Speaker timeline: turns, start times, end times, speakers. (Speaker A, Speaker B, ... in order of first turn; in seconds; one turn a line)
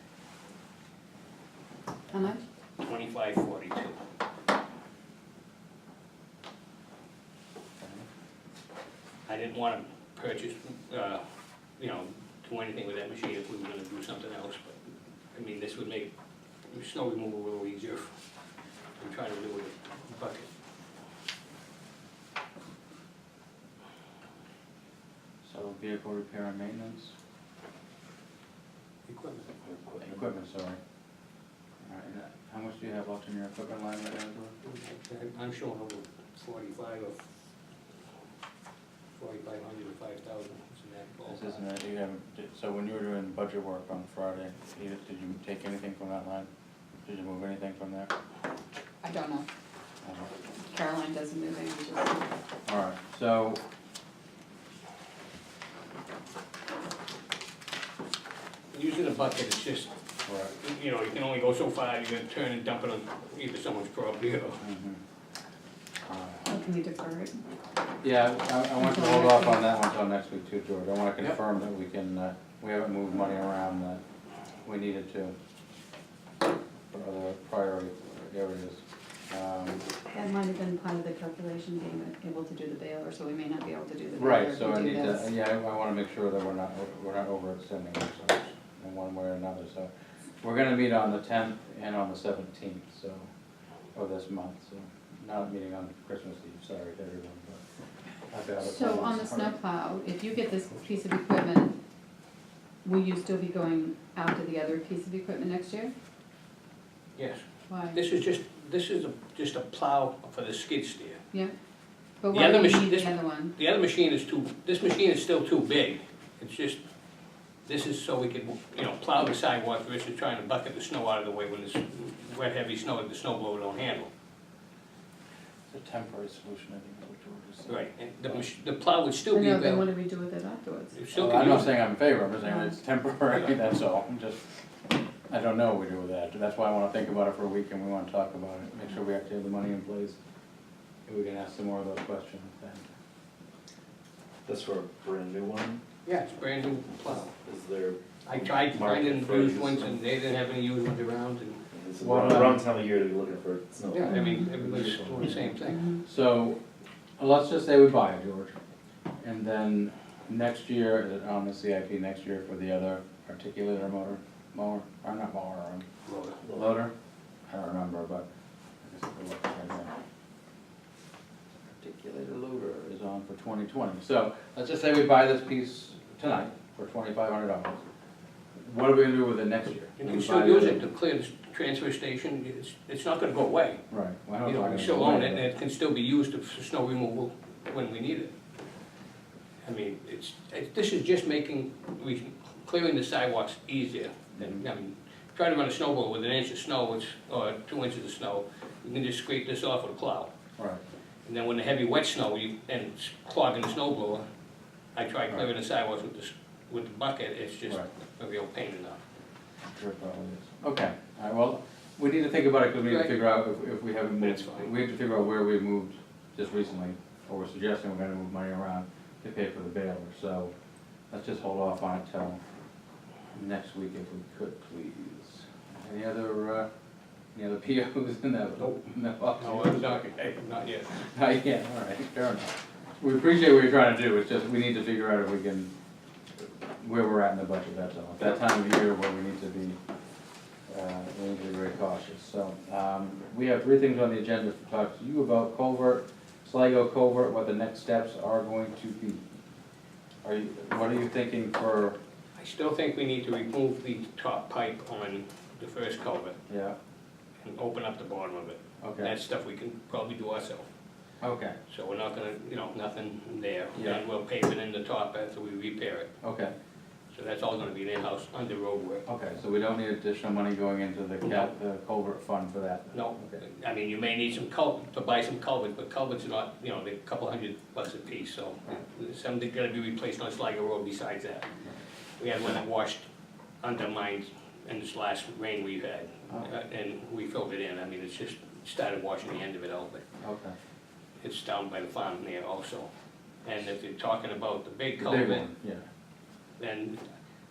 Speaker A: 2.1-2.4
Speaker B: 2.8-4.0
Speaker B: 9.2-11.2
Speaker B: 11.8-14.8
Speaker B: 15.3-16.1
Speaker B: 16.7-18.1
Speaker B: 19.0-20.5
Speaker C: 25.4-27.1
Speaker B: 29.1-29.5
Speaker D: 29.6-30.2
Speaker C: 30.0-30.8
Speaker C: 31.8-34.5
Speaker B: 34.6-37.2
Speaker B: 39.1-41.6
Speaker C: 41.3-46.5
Speaker C: 47.0-48.1
Speaker A: 49.0-49.5
Speaker C: 50.0-50.3
Speaker A: 50.7-52.3
Speaker C: 52.6-53.6
Speaker B: 58.7-59.9
Speaker C: 60.2-60.5
Speaker B: 60.5-64.6
Speaker C: 64.6-65.0
Speaker C: 66.0-66.5
Speaker A: 66.5-67.4
Speaker C: 68.0-74.0
Speaker A: 68.8-69.6
Speaker C: 74.6-75.3
Speaker C: 76.9-79.8
Speaker A: 80.1-85.3
Speaker C: 84.2-89.9
Speaker C: 90.4-93.2
Speaker C: 93.9-97.6
Speaker C: 98.3-99.5
Speaker A: 98.6-101.7
Speaker A: 102.8-105.9
Speaker B: 107.2-111.2
Speaker A: 107.7-108.0
Speaker A: 112.2-113.5
Speaker B: 112.3-116.8
Speaker B: 117.6-124.1
Speaker C: 125.7-128.3
Speaker B: 127.7-129.8
Speaker A: 129.3-131.0
Speaker B: 130.9-131.7
Speaker C: 131.1-134.5
Speaker A: 132.4-132.7
Speaker C: 135.3-140.2
Speaker C: 141.1-142.9
Speaker D: 144.4-145.8
Speaker B: 146.0-147.3
Speaker D: 147.1-150.0
Speaker B: 148.2-151.6
Speaker D: 151.7-155.4
Speaker C: 152.0-152.6
Speaker B: 153.9-155.9
Speaker A: 154.1-154.4
Speaker A: 155.7-156.0
Speaker C: 156.0-156.6
Speaker C: 157.2-158.5
Speaker C: 159.2-165.8
Speaker B: 166.0-166.4
Speaker C: 166.4-166.9
Speaker C: 167.5-168.2
Speaker C: 168.8-169.9
Speaker C: 171.7-177.8
Speaker C: 178.6-180.8
Speaker B: 180.0-183.8
Speaker C: 183.9-185.4
Speaker B: 184.4-188.3
Speaker B: 189.6-200.3
Speaker C: 194.3-194.6
Speaker B: 201.2-204.2
Speaker B: 204.9-209.0
Speaker C: 209.7-220.5
Speaker B: 212.8-213.1
Speaker B: 214.2-214.7
Speaker C: 221.1-222.4
Speaker C: 223.3-226.7
Speaker C: 227.3-230.1
Speaker B: 229.4-231.0
Speaker C: 230.9-235.7
Speaker C: 236.8-239.8
Speaker C: 240.7-249.2
Speaker C: 250.2-252.0
Speaker B: 252.4-256.4
Speaker C: 256.5-256.8
Speaker B: 257.4-260.7
Speaker C: 258.8-259.1
Speaker C: 261.2-261.5
Speaker B: 261.7-266.1
Speaker C: 263.8-264.0
Speaker C: 266.2-266.5
Speaker B: 267.1-269.1
Speaker C: 269.1-273.4
Speaker B: 272.9-281.5
Speaker B: 282.2-283.1
Speaker B: 283.6-290.0
Speaker C: 290.2-290.5
Speaker B: 291.2-292.9
Speaker B: 293.4-295.5
Speaker C: 295.0-295.9
Speaker B: 296.6-297.0